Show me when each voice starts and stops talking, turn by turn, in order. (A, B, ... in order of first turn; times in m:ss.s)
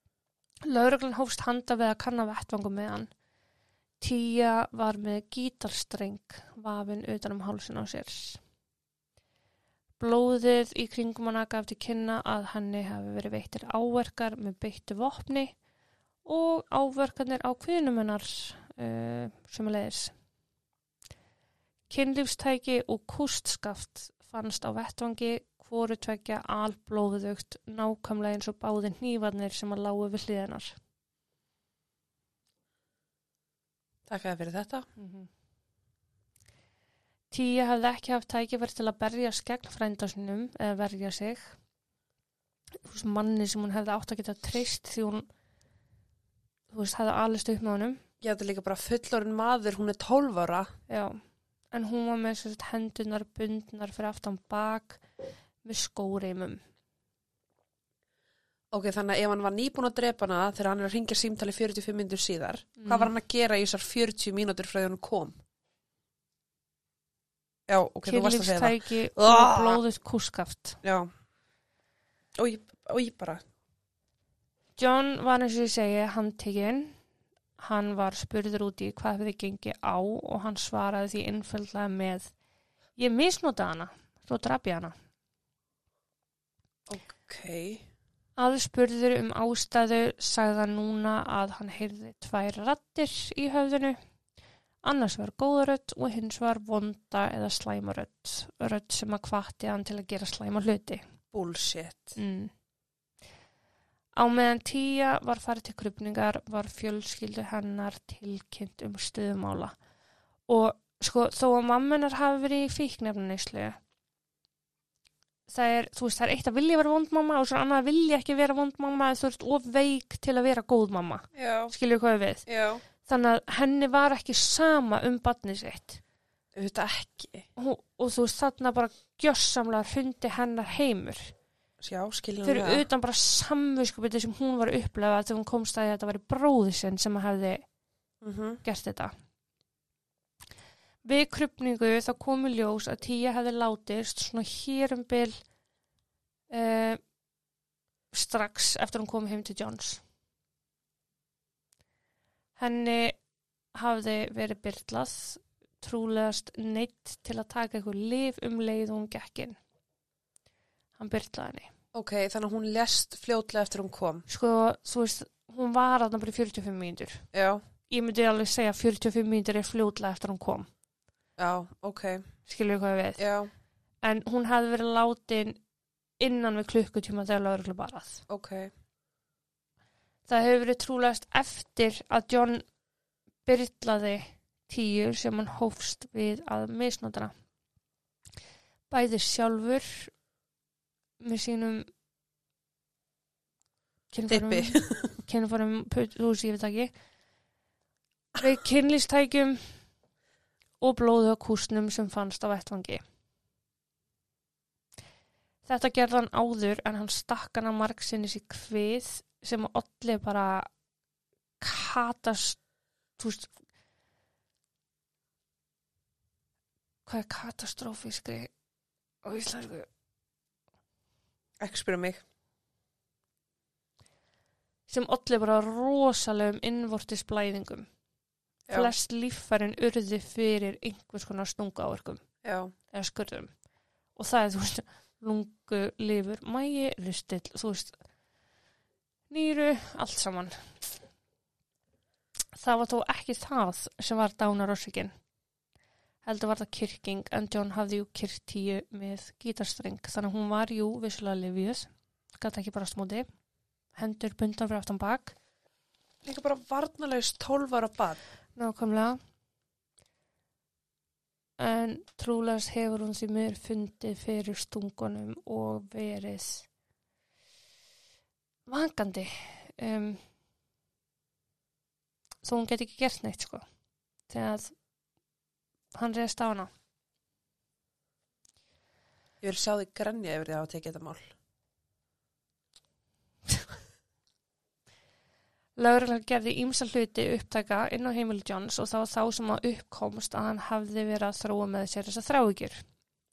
0:00.6-0:03.1 A
0:04.0-0:08.4 A
0:10.0-0:15.5 A
0:16.2-0:20.1 A
0:21.9-0:30.8 A
0:34.1-0:34.9 B
0:35.0-0:35.3 A
0:37.3-0:41.5 A
0:42.8-0:45.2 A
0:46.7-0:48.0 A
0:48.2-0:50.7 B
0:50.9-0:51.2 A
0:51.7-0:55.0 A
0:55.6-0:56.6 A
0:58.7-1:05.4 B
1:02.8-1:03.1 A
1:07.7-1:09.8 B
1:08.0-1:10.8 A
1:10.8-1:11.1 B
1:12.4-1:13.4 B
1:14.8-1:17.0 A
1:17.6-1:22.3 A
1:23.0-1:24.9 A
1:26.9-1:27.8 B
1:28.4-1:34.0 A
1:34.8-1:41.0 A
1:41.3-1:42.2 B
1:42.2-1:42.5 A
1:44.2-1:49.7 A
1:50.5-1:53.8 A
1:55.5-2:02.4 A
2:01.3-2:01.7 B
2:02.5-2:02.8 B
2:03.0-2:06.0 A
2:06.5-2:07.5 B
2:07.6-2:11.3 A
2:11.8-2:12.8 B
2:12.4-2:17.6 A
2:18.2-2:18.6 B
2:18.6-2:19.1 A
2:21.0-2:25.4 A
2:26.5-2:27.0 A
2:28.1-2:30.0 A
2:32.6-2:33.2 A
2:33.7-2:39.6 A
2:41.0-2:41.7 A
2:41.9-2:44.3 B
2:44.3-2:47.2 A
2:47.3-2:47.6 B
2:47.9-2:50.7 A
2:51.4-2:52.2 B
2:52.4-2:53.2 A
2:53.2-2:53.5 B
2:54.0-2:55.6 A
2:56.2-2:58.2 A
2:58.3-2:58.7 B
3:00.3-3:02.6 A
3:03.4-3:07.3 A
3:08.9-3:10.1 A
3:11.2-3:11.9 A
3:14.1-3:16.9 A
3:14.3-3:15.1 B
3:18.4-3:19.6 A
3:20.8-3:23.0 A
3:25.6-3:30.7 A
3:31.6-3:32.6 A
3:33.2-3:33.5 A
3:37.0-3:38.5 A
3:39.2-3:39.9 A
3:41.6-3:42.2 B
3:44.9-3:47.9 A
3:48.7-3:52.2 A
3:52.4-3:52.7 B
3:52.9-3:53.5 A
3:54.2-3:58.0 A
3:59.3-4:00.6 A
4:02.6-4:05.1 A
4:06.2-4:13.3 A
4:14.0-4:15.3 A
4:16.2-4:18.2 B
4:18.6-4:19.2 A
4:21.6-4:26.7 A
4:28.7-4:30.2 A
4:32.4-4:33.6 A
4:34.3-4:34.7 A
4:35.9-4:36.7 A
4:39.4-4:41.3 B
4:45.8-4:52.8 A